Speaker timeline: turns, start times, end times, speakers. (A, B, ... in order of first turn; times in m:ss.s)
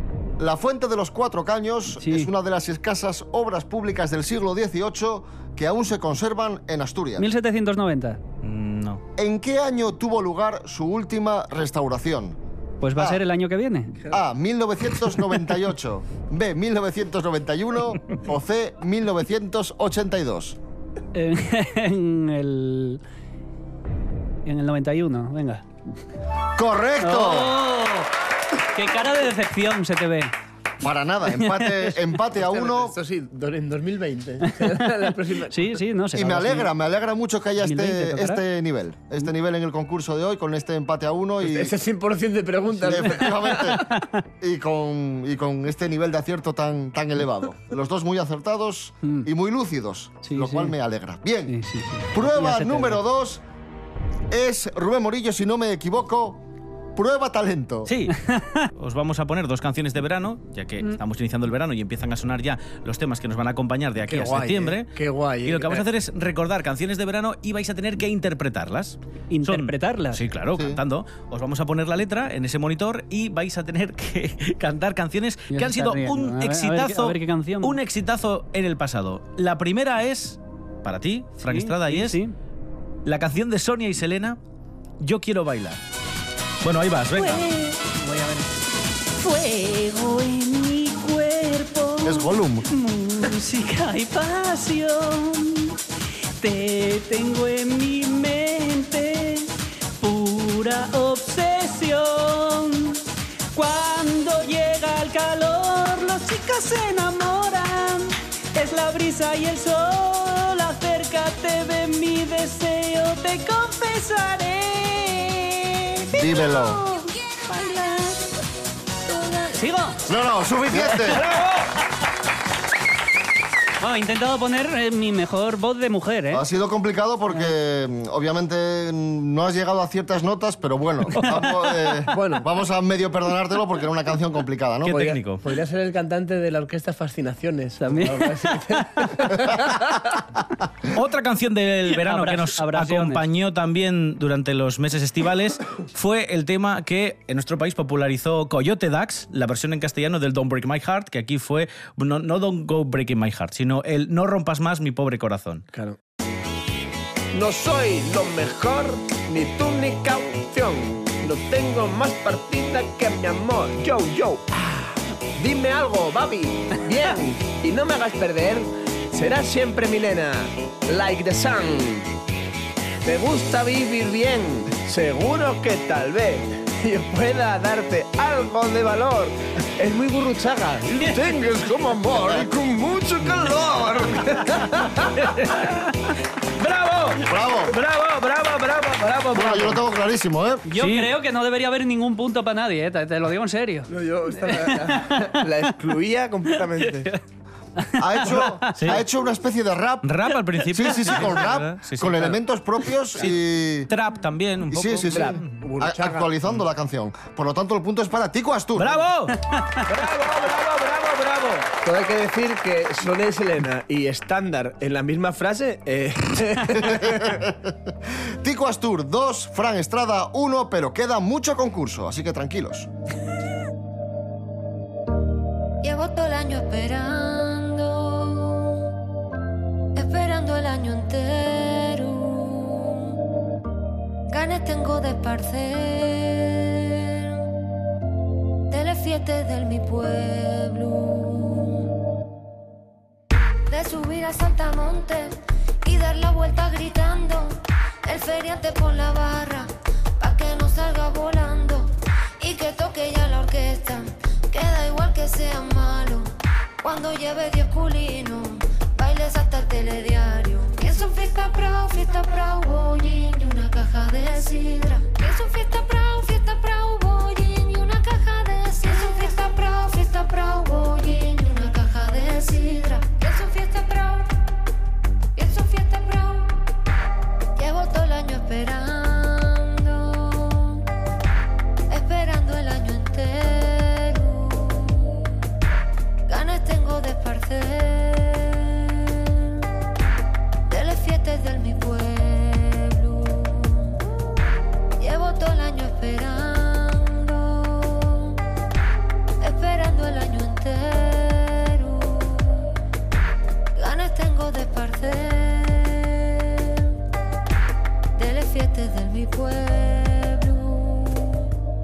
0:00.4-0:07.3 A
0:02.0-0:02.3 B
0:07.2-0:08.2 B
0:08.4-0:09.0 C
0:09.2-0:12.4 A
0:12.8-0:14.0 B
0:13.0-0:13.2 A
0:14.1-0:20.6 A
0:21.2-0:23.0 B
0:24.5-0:25.6 B
0:26.6-0:27.6 A
0:27.0-0:28.1 B
0:28.7-0:30.3 B
0:30.8-0:33.0 A
0:32.4-0:35.8 D
0:34.4-0:34.9 B
0:35.5-0:36.7 B
0:36.1-0:41.7 A
0:37.6-0:38.4 B
0:41.4-0:43.8 D
0:42.8-0:43.9 A
0:43.2-0:44.2 B
0:44.4-0:51.6 A
0:50.2-0:50.8 B
0:51.5-0:53.0 B
0:52.1-0:53.4 A
0:54.3-0:56.4 A
0:57.0-0:57.9 A
0:57.9-0:58.1 C
0:58.3-0:58.6 B
0:58.8-1:04.9 C
1:04.0-1:05.9 D
1:05.4-1:22.2 C
1:09.3-1:10.2 B
1:10.5-1:10.8 A
1:15.5-1:17.8 B
1:21.4-1:22.4 B
1:23.0-1:24.4 C
1:25.0-1:25.8 C
1:26.6-1:27.5 C
1:27.2-1:28.5 B
1:29.2-1:35.8 B
1:32.0-1:32.7 A
1:36.4-1:43.0 B
1:43.5-1:58.3 B
1:56.2-1:56.8 A
1:59.1-2:00.0 B
2:00.1-2:01.2 A
2:00.9-2:01.6 C
2:03.8-2:06.4 B
2:06.3-2:15.1 A
2:12.1-2:12.4 D
2:14.8-2:15.4 C
2:14.9-2:20.0 D
2:17.8-2:19.4 B
2:20.9-2:35.6 C
2:21.9-2:23.2 B
2:37.3-2:52.1 D
2:53.0-3:05.1 D
3:02.3-3:02.8 A
3:05.2-3:09.8 C
3:07.2-3:07.8 A
3:09.3-3:10.6 A
3:10.7-3:15.5 B
3:10.8-3:11.1 C
3:13.9-3:17.1 D
3:16.9-3:17.2 B
3:17.8-3:18.9 B
3:18.0-3:23.9 A
3:18.8-3:19.0 C
3:20.0-3:22.4 C
3:23.2-3:25.5 C
3:24.7-3:29.0 A
3:25.1-3:26.3 D
3:28.8-3:31.7 C
3:31.8-3:37.3 D
3:36.8-3:42.9 A
3:45.8-3:48.9 E
3:50.0-3:53.2 E
3:54.3-3:57.4 E
3:58.7-4:01.9 E
4:03.7-4:16.3 E
4:16.8-4:34.3 E
4:35.4-4:36.5 E
4:37.6-4:40.8 E
4:41.9-4:45.3 E
4:46.3-4:49.6 E
4:50.7-4:54.0 E
4:55.0-4:58.4 E
4:59.4-5:02.7 E
5:03.8-5:07.0 E
5:08.2-5:11.5 E